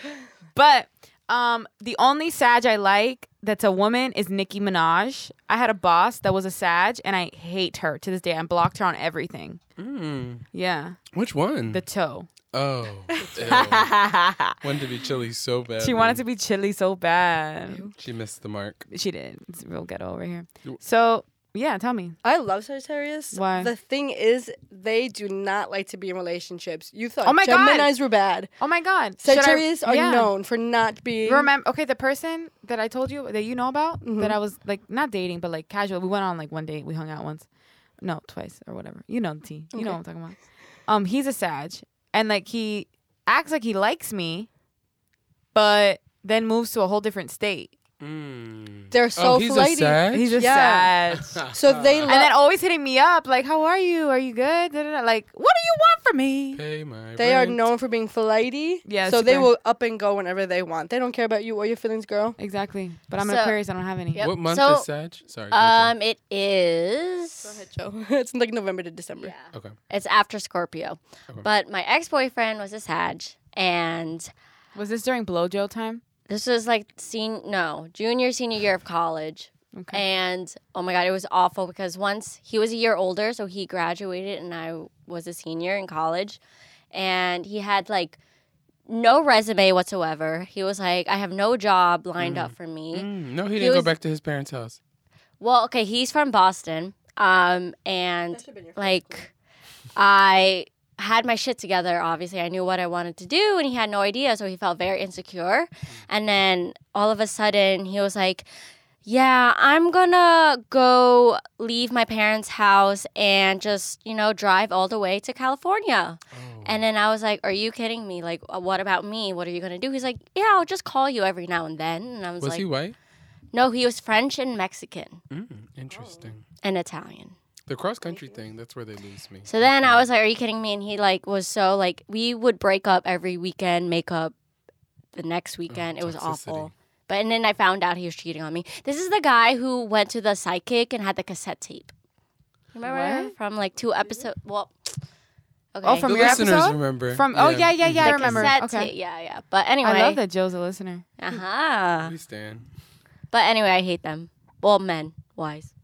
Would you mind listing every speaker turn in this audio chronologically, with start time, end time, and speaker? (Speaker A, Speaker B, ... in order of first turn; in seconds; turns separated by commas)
Speaker A: 0.5-9.6, Speaker B: 9.8-10.4, Speaker A: 10.5-11.0, Speaker B: 11.1-11.8, Speaker A: 11.7-12.3, Speaker B: 12.5-14.0, Speaker A: 13.2-14.6, Speaker C: 13.3-13.6, Speaker B: 14.6-16.2, Speaker A: 15.8-17.9, Speaker C: 17.7-17.9, Speaker B: 18.0-18.9, Speaker A: 18.9-22.2, Speaker C: 22.2-28.5, Speaker A: 23.3-23.7, Speaker A: 27.2-27.9, Speaker A: 28.6-30.3, Speaker C: 29.2-31.5, Speaker A: 31.2-37.5, Speaker C: 34.0-34.4, Speaker A: 38.0-44.5, Speaker C: 39.7-40.0, Speaker A: 45.5-47.7, Speaker B: 48.0-50.4, Speaker C: 48.9-51.0, Speaker A: 50.1-51.4, Speaker B: 51.1-52.2, Speaker C: 51.5-52.3, Speaker A: 52.1-56.6, Speaker B: 56.5-57.7, Speaker C: 57.2-62.4, Speaker A: 58.9-59.5, Speaker A: 62.4-64.3, Speaker D: 63.2-63.6, Speaker D: 64.1-64.9, Speaker B: 64.2-66.0, Speaker D: 65.5-67.6, Speaker C: 67.4-69.3, Speaker D: 69.2-74.3, Speaker A: 74.8-76.0, Speaker D: 76.3-86.4, Speaker A: 79.7-80.0, Speaker D: 86.9-88.2, Speaker D: 88.9-93.9, Speaker B: 92.2-94.8, Speaker D: 95.4-99.3, Speaker C: 98.3-99.3, Speaker D: 100.0-108.5, Speaker D: 109.0-122.7, Speaker B: 116.3-116.8, Speaker B: 122.4-123.0, Speaker D: 123.5-125.2, Speaker B: 125.3-126.5, Speaker C: 125.9-126.3, Speaker D: 126.6-127.4, Speaker B: 127.7-130.1, Speaker C: 128.1-128.4, Speaker D: 129.5-134.3, Speaker D: 135.1-141.9, Speaker B: 135.7-136.7, Speaker D: 142.7-145.0, Speaker A: 142.8-143.3, Speaker D: 145.7-146.4, Speaker A: 145.8-148.9, Speaker B: 146.0-148.5, Speaker D: 148.0-150.2, Speaker A: 149.8-151.0, Speaker D: 151.2-152.1, Speaker B: 152.0-152.7, Speaker D: 153.3-155.7